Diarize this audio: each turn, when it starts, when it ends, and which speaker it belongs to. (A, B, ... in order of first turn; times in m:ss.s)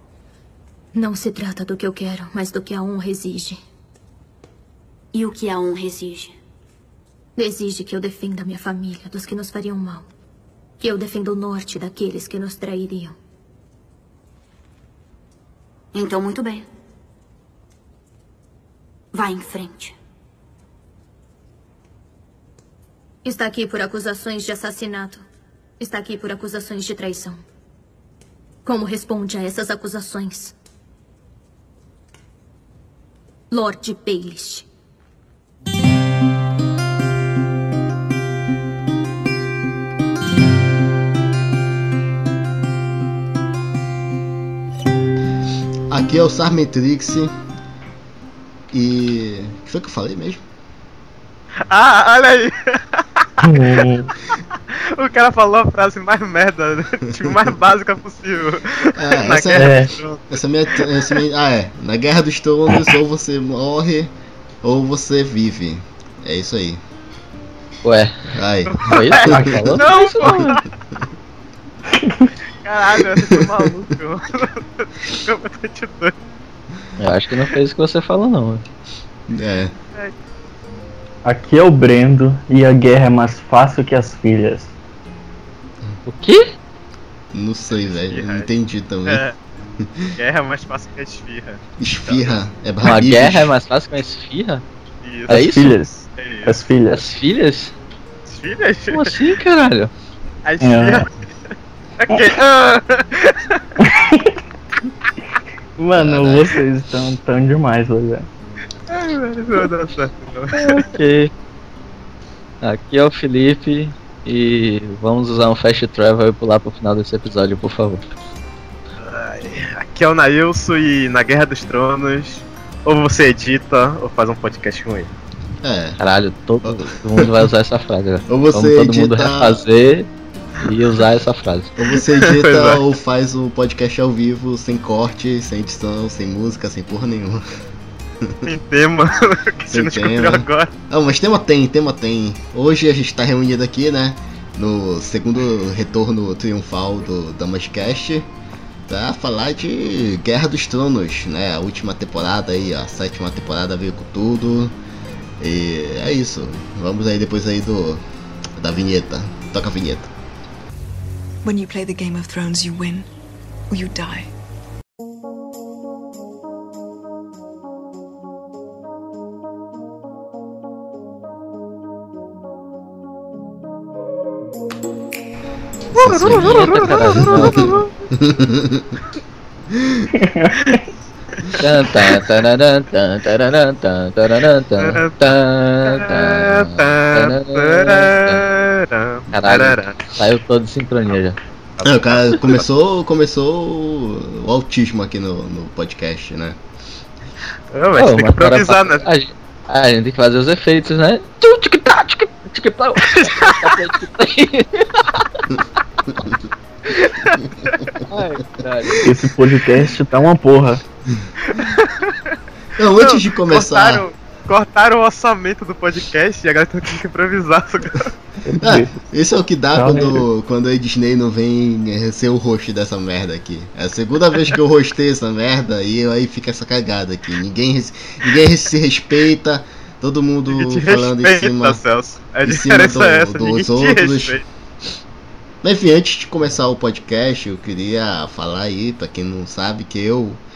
0:00.9-0:03.6 A
0:05.1-0:06.3 B
0:07.4-0:10.1 A
0:10.8-0:13.2 A
0:15.9-0:16.7 B
0:19.1-0:19.9 B
0:23.2-0:25.2 A
0:25.8-0:27.4 A
0:28.6-0:30.6 A
0:33.5-0:34.7 A
0:45.9-0:47.3 C
0:48.7-0:50.4 C
0:51.7-1:01.2 D
0:53.4-0:54.1 E
0:59.0-1:06.8 C
0:59.6-0:59.9 E
1:07.8-1:08.2 F
1:08.3-1:10.5 C
1:08.7-1:10.7 D
1:08.9-1:10.6 F
1:09.3-1:09.8 E
1:12.0-1:12.3 E
1:12.6-1:16.2 D
1:13.2-1:13.5 C
1:17.0-1:18.6 F
1:19.3-1:19.7 C
1:21.2-1:24.7 E
1:26.1-1:26.5 F
1:27.3-1:29.2 C
1:27.7-1:28.5 D
1:29.1-1:29.4 D
1:29.8-1:30.1 C
1:30.2-1:32.4 D
1:31.8-1:33.6 C
1:32.8-1:34.6 F
1:35.0-1:35.4 D
1:35.3-1:37.0 E
1:35.3-1:35.8 F
1:36.2-1:36.5 D
1:36.9-1:37.7 F
1:38.3-1:39.2 D
1:38.9-1:39.9 F
1:40.4-1:41.2 D
1:40.6-1:41.1 E
1:42.0-1:43.6 D
1:43.8-1:44.4 E
1:45.8-1:48.3 E
1:46.0-1:46.5 C
1:48.9-1:50.8 D
1:50.6-1:51.3 F
1:52.6-1:58.0 F
1:59.0-2:05.1 D
2:05.6-2:06.0 C
2:06.0-2:10.1 F
2:06.6-2:07.5 C
2:08.3-2:09.6 C
2:10.6-2:11.7 F
2:11.8-2:17.4 C
2:12.2-2:12.8 D
2:18.4-2:20.7 D
2:19.7-2:28.3 C
2:28.9-2:34.8 C
2:35.4-2:38.0 C
2:38.6-2:40.1 C
2:41.4-2:43.1 G
2:43.7-2:44.3 G
2:55.9-2:59.0 C
2:56.1-2:57.8 D
2:56.2-2:57.7 F
2:59.7-3:00.1 C
3:00.1-3:00.8 E
3:01.6-3:08.5 F
3:04.8-3:05.2 D
3:05.8-3:10.0 D
3:09.3-3:11.4 F
3:11.8-3:12.6 D
3:11.8-3:16.6 C
3:17.7-3:19.1 D
3:18.0-3:25.2 F
3:23.1-3:23.8 D
3:27.2-3:27.9 D
3:28.1-3:29.1 F
3:29.0-3:30.8 E
3:31.4-3:32.4 D
3:32.8-3:34.0 C
3:33.0-3:38.1 D
3:38.4-3:39.0 E
3:38.6-3:51.8 C
3:39.8-3:40.2 E
3:50.5-3:54.4 D
3:52.4-3:54.4 C
3:55.6-4:00.4 C